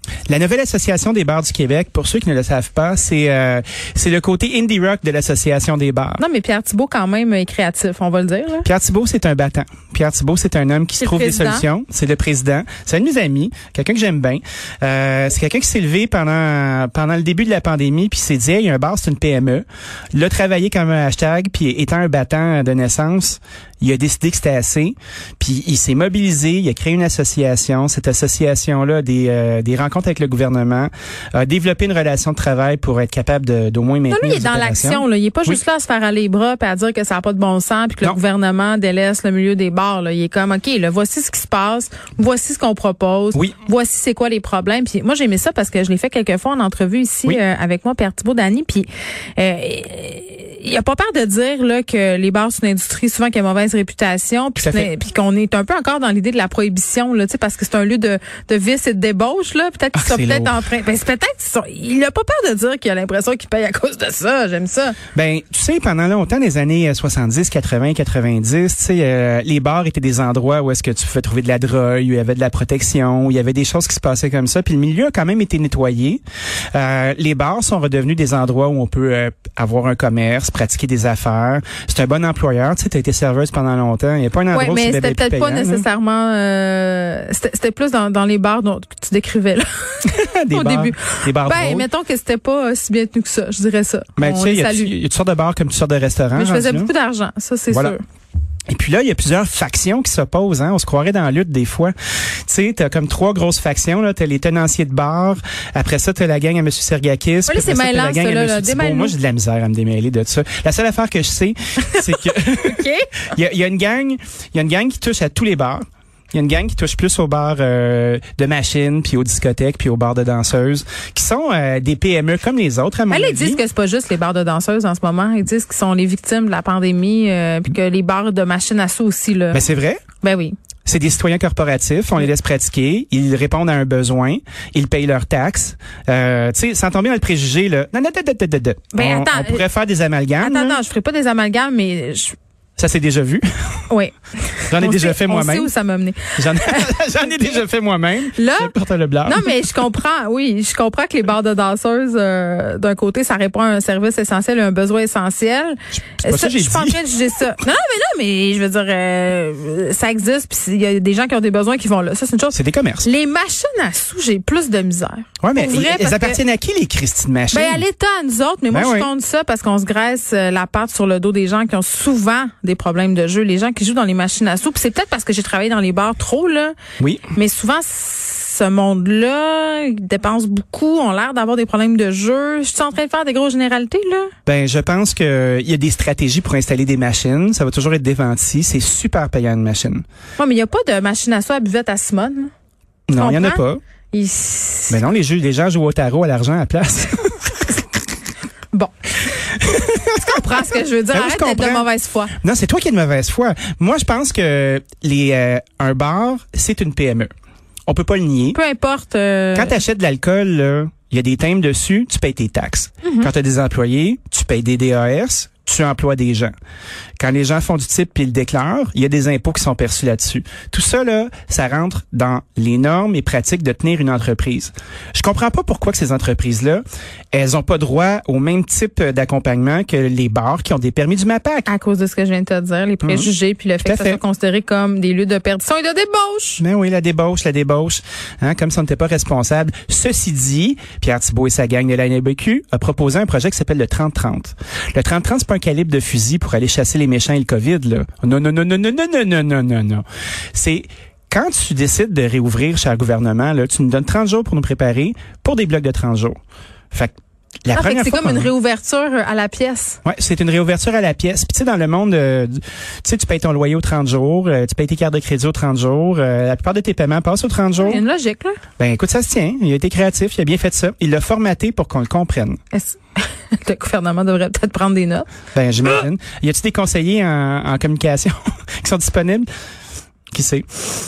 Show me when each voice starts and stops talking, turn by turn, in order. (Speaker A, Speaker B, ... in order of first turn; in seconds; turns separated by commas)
Speaker A: 0.3-6.2, Speaker B: 6.2-8.7, Speaker A: 8.6-35.6, Speaker B: 11.0-11.7, Speaker B: 34.1-65.0, Speaker A: 54.6-54.9, Speaker A: 59.9-60.6, Speaker A: 65.1-76.2, Speaker A: 76.7-85.8, Speaker B: 84.5-94.9, Speaker A: 90.0-91.9, Speaker A: 94.2-96.9, Speaker B: 96.3-98.0, Speaker A: 97.7-98.0, Speaker A: 98.7-101.9, Speaker A: 102.4-123.6, Speaker B: 107.5-109.1, Speaker B: 111.8-113.2, Speaker B: 123.1-129.6, Speaker A: 129.5-130.0, Speaker B: 130.2-130.5, Speaker A: 130.8-140.8, Speaker B: 138.9-139.7, Speaker B: 140.4-142.3, Speaker A: 142.8-143.5, Speaker B: 143.9-147.0, Speaker A: 144.7-145.7, Speaker A: 146.3-149.5, Speaker B: 148.3-148.7, Speaker B: 149.2-166.4, Speaker A: 155.9-157.0, Speaker A: 162.5-163.1, Speaker A: 165.4-167.8, Speaker B: 167.5-176.7, Speaker A: 168.7-169.1, Speaker A: 177.0-177.3, Speaker B: 177.3-184.3, Speaker A: 184.4-190.0, Speaker B: 190.4-192.5, Speaker A: 193.1-193.8, Speaker B: 193.1-195.0, Speaker A: 194.9-197.6, Speaker A: 199.6-200.6, Speaker B: 200.2-202.3, Speaker A: 201.1-201.9, Speaker A: 202.4-207.3, Speaker A: 207.9-208.6, Speaker B: 208.5-209.8, Speaker A: 209.5-216.5, Speaker B: 213.0-213.3, Speaker A: 217.2-231.7, Speaker B: 231.7-236.6, Speaker A: 233.0-233.3, Speaker A: 233.8-234.2, Speaker A: 236.6-256.4, Speaker A: 256.9-258.5, Speaker B: 257.7-260.0, Speaker A: 260.0-268.0, Speaker B: 267.8-268.6, Speaker A: 268.8-272.6, Speaker B: 272.7-275.3, Speaker A: 275.5-279.5, Speaker A: 280.3-280.6